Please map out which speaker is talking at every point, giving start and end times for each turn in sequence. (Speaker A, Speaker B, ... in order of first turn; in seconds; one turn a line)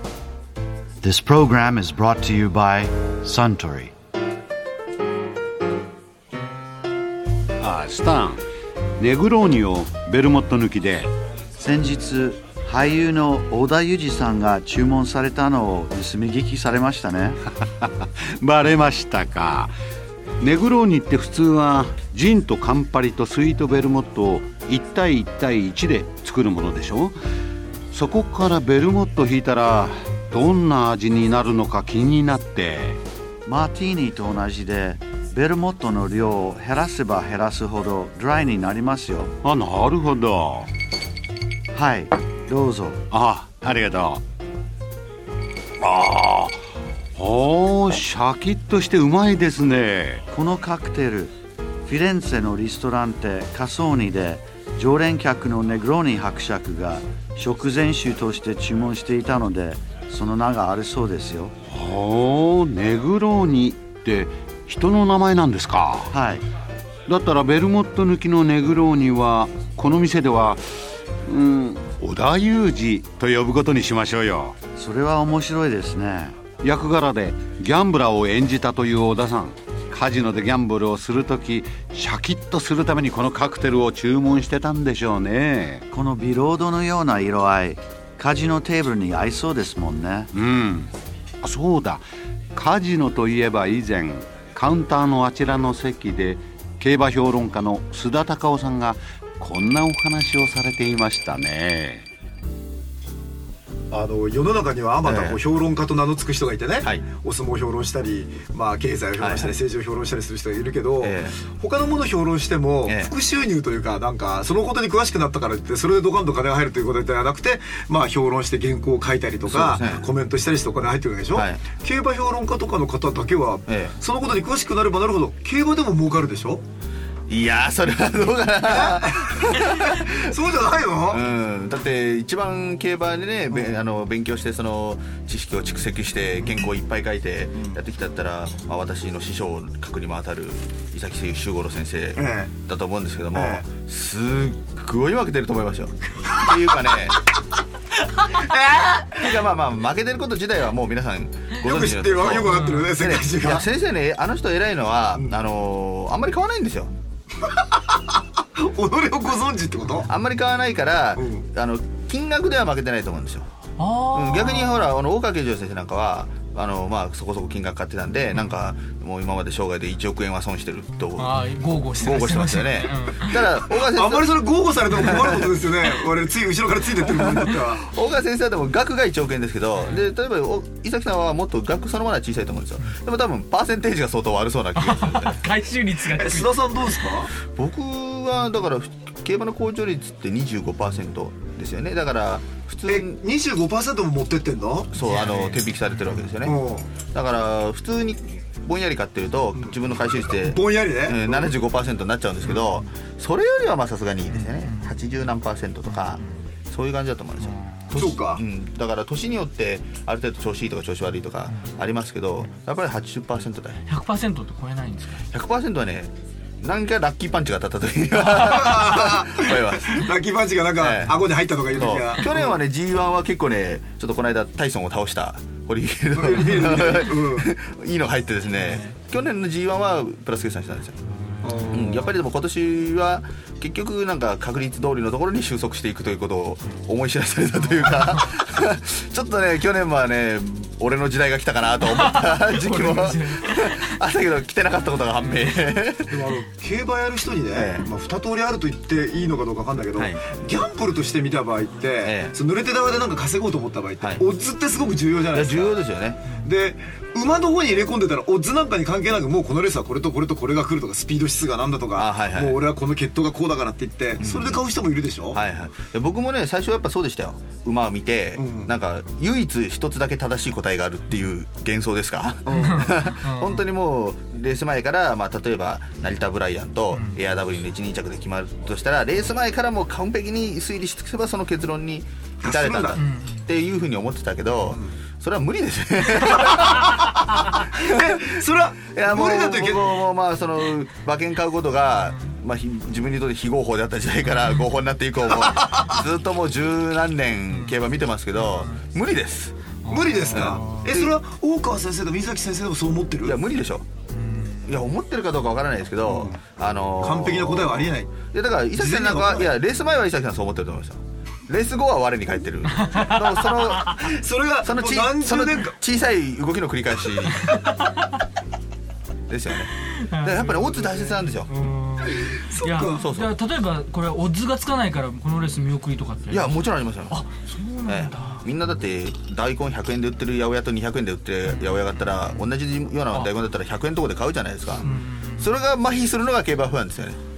Speaker A: 1.0-3.9
Speaker B: 7.6-8.4
Speaker B: 9.0-11.1
Speaker A: 11.6-17.4
Speaker B: 17.6-19.7
Speaker B: 20.4-27.2
Speaker B: 27.9-33.0
Speaker A: 33.4-39.3
Speaker B: 39.4-40.7
Speaker A: 41.7-43.0
Speaker B: 43.1-44.2
Speaker B: 45.8-46.6
Speaker B: 47.1-50.2
Speaker A: 50.3-51.3
Speaker A: 51.9-61.5
Speaker B: 61.7-66.1
Speaker A: 66.1-66.4
Speaker B: 67.1-70.7
Speaker B: 71.2-74.5
Speaker A: 74.7-76.4
Speaker B: 76.6-85.8
Speaker A: 85.9-90.3
Speaker B: 90.3-90.9
Speaker B: 91.4-102.1
Speaker C: 103.9-126.6
Speaker D: 105.0-105.4
Speaker D: 109.2-109.6
Speaker D: 111.0-111.3
Speaker D: 112.8-113.1
Speaker D: 119.5-120.1
Speaker D: 121.3-121.7
Speaker D: 123.7-124.0
Speaker D: 127.3-130.3
Speaker C: 128.6-131.2
Speaker D: 131.1-147.2
Speaker C: 142.2-142.5
Speaker C: 143.3-143.7
Speaker C: 148.3-149.3
Speaker D: 149.2-156.9
Speaker C: 151.7-153.7
Speaker E: 152.5-152.8
Speaker C: 157.4-160.1
Speaker D: 160.1-163.5
Speaker C: 161.2-161.5
Speaker E: 163.8-164.9
Speaker D: 164.1-174.3
Speaker E: 171.2-173.5
Speaker C: 173.8-177.8
Speaker D: 174.9-175.7
Speaker D: 177.1-185.4
Speaker E: 184.8-187.0
Speaker C: 186.0-187.3
Speaker D: 187.4-193.2
Speaker C: 192.9-195.0
Speaker D: 194.9-213.8
Speaker E: 195.0-196.3
Speaker C: 196.4-196.9
Speaker C: 200.3-201.5
Speaker E: 202.5-202.9
Speaker E: 204.3-205.0
Speaker E: 205.9-206.3
Speaker E: 207.4-208.0
Speaker C: 207.9-208.4
Speaker E: 213.9-215.2
Speaker D: 215.3-220.1
Speaker C: 218.4-222.6
Speaker D: 220.8-231.0
Speaker C: 226.1-227.5
Speaker E: 228.6-228.9
Speaker E: 231.2-231.8
Speaker C: 231.4-232.1
Speaker D: 231.7-246.2
Speaker E: 241.8-243.9
Speaker C: 246.1-255.8
Speaker D: 247.5-247.9
Speaker D: 252.0-252.4
Speaker D: 254.0-254.2
Speaker D: 255.3-256.4
Speaker C: 256.4-265.4
Speaker D: 262.0-262.6
Speaker D: 264.2-264.6
Speaker D: 265.3-299.5
Speaker C: 268.4-268.7
Speaker C: 272.4-272.9
Speaker E: 272.5-273.6
Speaker E: 276.9-277.2
Speaker C: 282.4-283.0
Speaker E: 282.9-283.5
Speaker C: 284.7-285.0
Speaker C: 286.8-287.1
Speaker C: 287.7-289.9
Speaker E: 294.3-294.7
Speaker E: 297.5-297.8
Speaker E: 298.4-298.8
Speaker E: 299.8-300.9
Speaker C: 299.9-303.4
Speaker D: 300.3-301.1
Speaker D: 303.2-303.9
Speaker E: 304.1-304.9
Speaker D: 304.6-314.1
Speaker C: 306.1-306.4
Speaker C: 307.0-309.5
Speaker E: 312.8-313.2
Speaker C: 314.0-315.8
Speaker D: 314.6-317.6
Speaker E: 317.4-317.9
Speaker D: 319.3-321.6
Speaker E: 319.9-328.4
Speaker C: 322.0-323.0
Speaker D: 322.9-323.3
Speaker D: 326.3-327.2
Speaker D: 327.9-337.2
Speaker E: 331.4-332.5
Speaker E: 334.8-335.5